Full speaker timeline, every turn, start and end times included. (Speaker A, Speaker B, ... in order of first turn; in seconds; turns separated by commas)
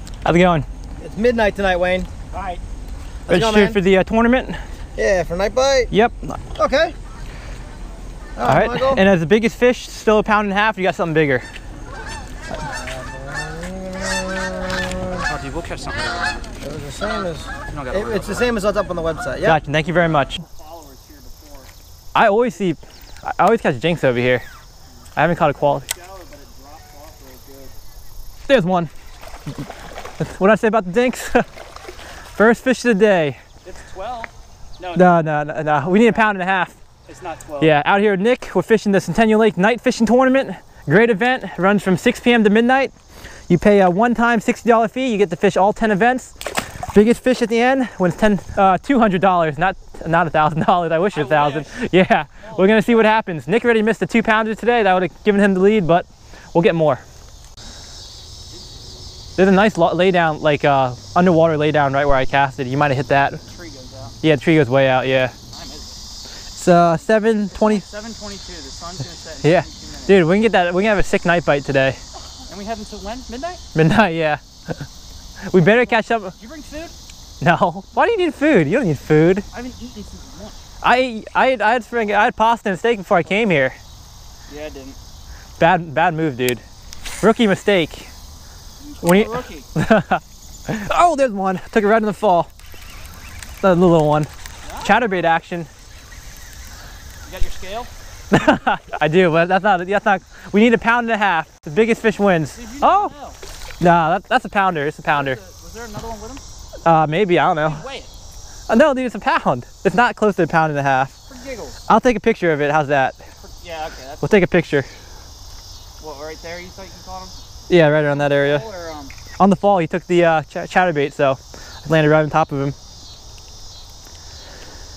Speaker A: 0.2-0.7, Speaker B: 1.0-2.1, Speaker C: 2.3-2.6, Speaker A: 3.3-4.6, Speaker B: 3.3-3.8, Speaker B: 5.0-5.9, Speaker A: 5.9-6.4, Speaker B: 6.5-6.9, Speaker B: 8.3-9.0, Speaker A: 8.4-11.4, Speaker B: 12.7-15.2, Speaker C: 15.2-16.1, Speaker B: 16.6-19.6, Speaker C: 17.7-18.6, Speaker A: 19.4-20.4, Speaker C: 20.3-21.7, Speaker A: 22.1-24.4, Speaker A: 25.1-25.9, Speaker C: 25.6-27.7, Speaker A: 28.5-28.9, Speaker A: 30.2-31.4, Speaker A: 32.4-33.4, Speaker C: 33.6-36.4, Speaker A: 34.9-36.8, Speaker C: 37.0-37.7, Speaker A: 37.6-42.9, Speaker A: 43.5-57.0, Speaker C: 51.1-51.8, Speaker C: 52.4-53.1, Speaker A: 59.4-63.4, Speaker C: 63.4-64.2, Speaker A: 64.2-65.3, Speaker C: 65.4-66.0, Speaker A: 66.5-67.8, Speaker C: 67.0-70.3, Speaker A: 69.4-72.0, Speaker C: 72.5-73.6, Speaker A: 73.7-74.8, Speaker A: 75.5-76.3, Speaker C: 75.5-76.9, Speaker A: 77.4-79.5, Speaker C: 79.5-80.6, Speaker A: 80.8-83.8, Speaker C: 84.5-85.0, Speaker A: 85.6-86.6, Speaker A: 87.2-88.1, Speaker C: 88.8-89.7, Speaker A: 89.0-92.5, Speaker A: 93.6-94.3, Speaker C: 94.6-95.3, Speaker A: 94.8-95.7, Speaker C: 97.2-97.9, Speaker A: 98.3-103.1, Speaker C: 102.5-103.4, Speaker A: 103.8-105.4, Speaker C: 105.1-106.4, Speaker A: 106.8-107.8, Speaker C: 107.5-108.1, Speaker A: 108.7-111.2, Speaker C: 111.3-111.8, Speaker A: 111.9-113.2, Speaker C: 113.3-114.3, Speaker A: 114.2-114.9, Speaker C: 116.0-117.3, Speaker A: 117.7-118.6, Speaker C: 118.0-119.1, Speaker A: 119.4-122.7